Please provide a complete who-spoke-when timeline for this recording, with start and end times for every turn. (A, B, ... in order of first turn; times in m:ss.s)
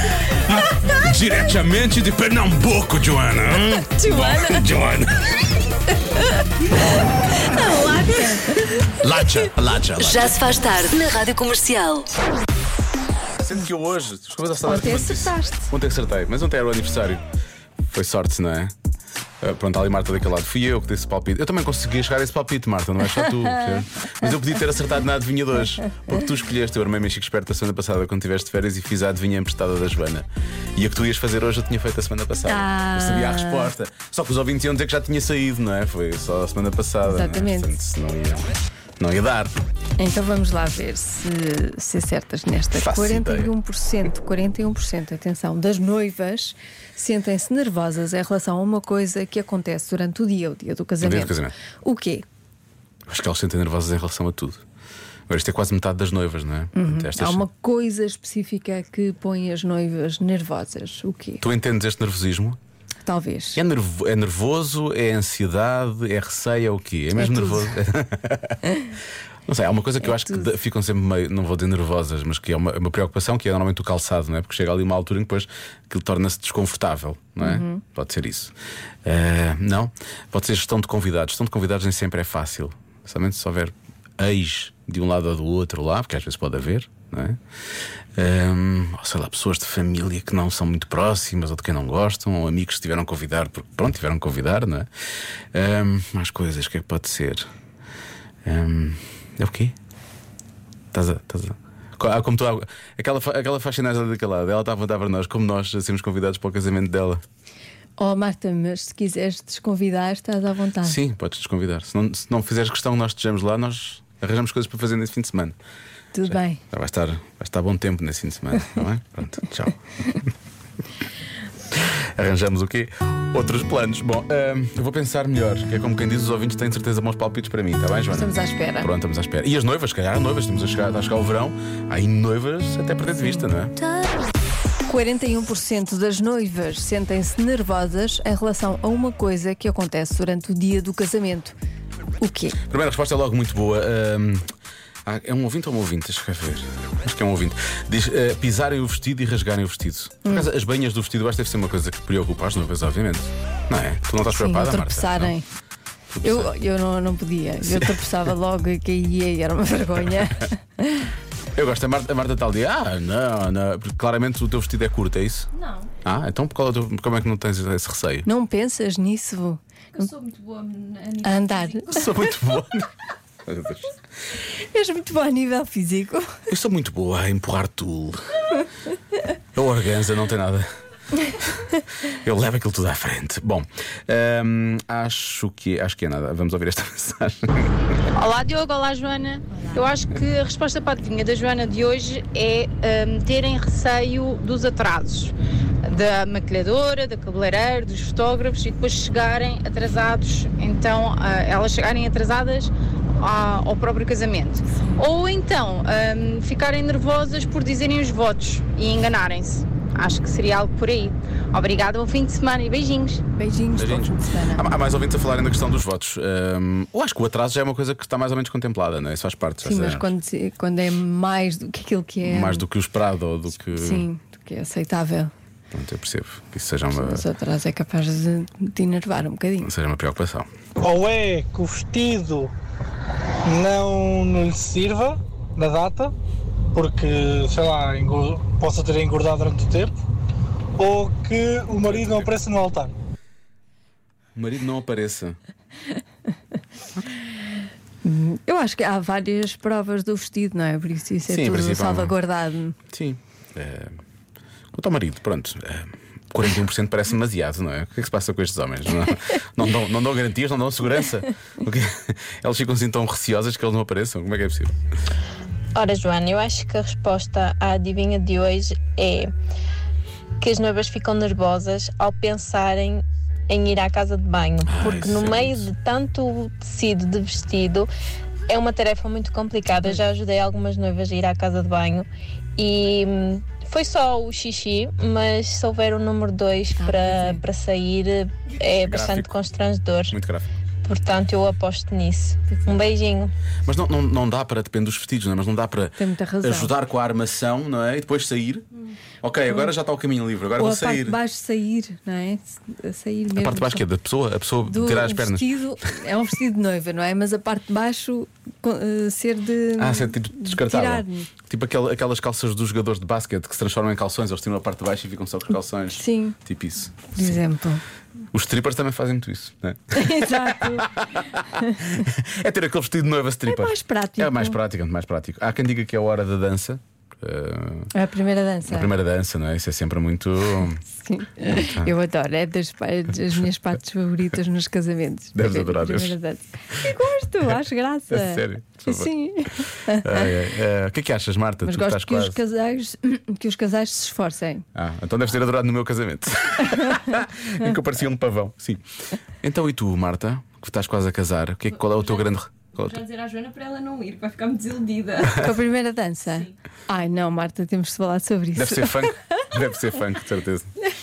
0:00.2-0:05.2 A
0:03.6-0:04.6 B
0:07.3-0:08.7 B
0:09.0-0:10.6 A
0:10.0-0:12.1 C
0:13.4-0:17.2 A
0:14.6-0:15.7 B
0:17.9-0:18.7 A
0:19.4-0:39.6 A
0:32.5-0:33.7 B
0:37.0-0:37.7 B
0:40.0-0:52.2 B
0:42.7-0:43.5 A
0:51.0-0:51.5 A
0:53.1-0:54.6 A
0:55.3-0:57.4 A
0:56.7-1:01.4 B
1:01.4-1:02.6 A
1:03.0-1:03.6 B
1:03.6-1:08.6 A
1:07.2-1:07.7 B
1:09.5-1:18.5 A
1:10.0-1:10.5 B
1:17.4-1:17.8 B
1:19.0-1:27.4 A
1:28.2-1:34.9 A
1:35.5-1:37.5 A
1:38.5-1:39.8 A
1:40.9-1:47.2 A
1:48.0-1:51.0 B
1:50.8-1:55.6 A
1:56.1-1:56.6 B
1:56.3-1:59.8 A
2:01.7-2:13.7 A
2:08.1-2:08.9 B
2:14.9-2:21.6 B
2:22.2-2:22.6 B
2:22.7-2:24.4 A
2:25.1-2:35.4 A
2:34.2-2:35.5 B
2:36.1-2:36.5 A
2:36.2-2:41.1 B
2:37.6-2:38.1 A
2:41.6-2:45.5 A
2:45.5-2:45.9 D
2:46.0-2:48.3 A
2:48.3-2:50.1 B
2:49.9-2:51.9 D
2:51.2-2:52.1 B
2:51.9-2:52.9 A
2:53.5-2:53.9 A
2:54.6-2:56.3 B
2:56.5-2:58.2 A
2:59.6-3:00.7 A
3:01.3-3:07.7 A
3:08.2-3:15.3 E
3:15.8-3:33.2 E
3:33.4-3:34.6 B
3:33.7-3:40.1 A
3:39.6-3:42.6 B
3:42.2-3:44.1 A
3:43.6-3:45.3 B
3:45.7-3:47.3 A
3:46.9-3:49.7 B
3:49.6-3:50.5 A
3:50.8-3:52.5 F
3:53.4-3:56.1 F
3:56.8-4:00.0 F
4:00.8-4:02.9 F
4:01.9-4:02.4 A
4:04.4-4:05.4 A
4:08.0-4:12.8 B
4:11.3-4:12.2 A
4:12.9-4:14.0 A
4:14.7-4:24.8 A
4:25.8-4:29.3 G
4:30.4-4:37.9 G
4:34.6-4:35.7 A
4:38.5-4:50.1 G
4:46.8-4:47.4 B
4:48.8-4:49.3 A
4:50.1-4:50.5 A
4:50.8-4:53.3 G
4:53.6-4:58.7 A
4:56.0-4:56.7 B
4:59.2-5:01.2 A
5:00.6-5:03.8 B
5:03.4-5:05.5 A
5:04.7-5:11.3 B
5:09.8-5:17.4 A
5:16.0-5:16.4 B
5:17.1-5:17.8 B
5:18.3-5:21.2 A
5:20.0-5:20.9 B
5:21.8-5:27.9 A
5:23.5-5:24.6 B
5:27.9-5:28.9 B
5:28.6-5:30.8 A
5:30.8-5:40.3 B
5:31.6-5:31.9 A
5:35.4-5:36.2 A
5:38.1-5:39.1 A
5:40.0-5:42.4 A
5:41.6-5:44.6 B
5:44.8-5:48.8 A
5:49.4-5:53.0 A
5:52.8-5:55.3 D
5:55.3-5:59.4 B
5:58.6-6:00.7 A